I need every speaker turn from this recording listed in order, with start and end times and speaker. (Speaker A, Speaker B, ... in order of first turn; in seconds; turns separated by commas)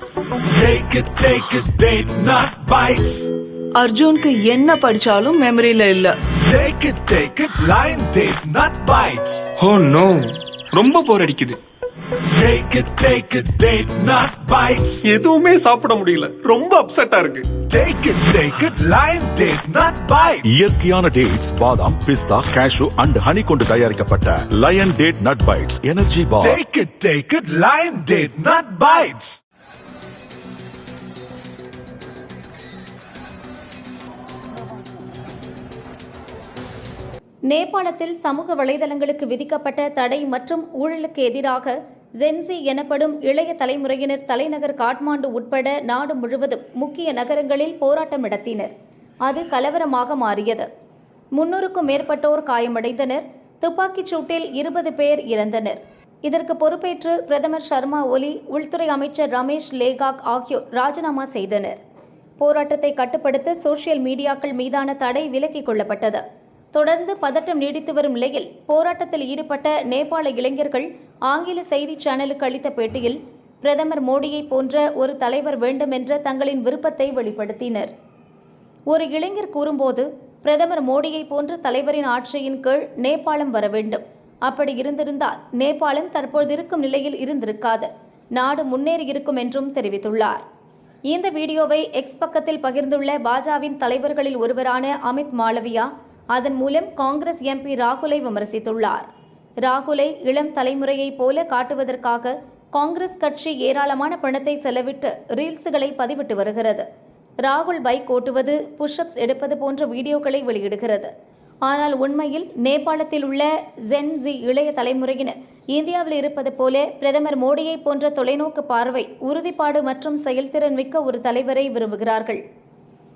Speaker A: 0.5-3.3, Speaker B: 3.8-6.2, Speaker A: 6.3-9.5, Speaker C: 9.6-11.6, Speaker A: 12.2-15.0, Speaker C: 15.0-17.5, Speaker A: 17.6-20.7, Speaker D: 20.4-26.6, Speaker A: 26.4-29.4, Speaker E: 37.5-48.7, Speaker E: 49.2-50.7, Speaker E: 51.3-61.8, Speaker E: 62.4-77.9, Speaker E: 78.9-90.4, Speaker E: 91.1-99.1, Speaker E: 99.6-106.8, Speaker E: 107.4-111.1, Speaker E: 111.6-122.4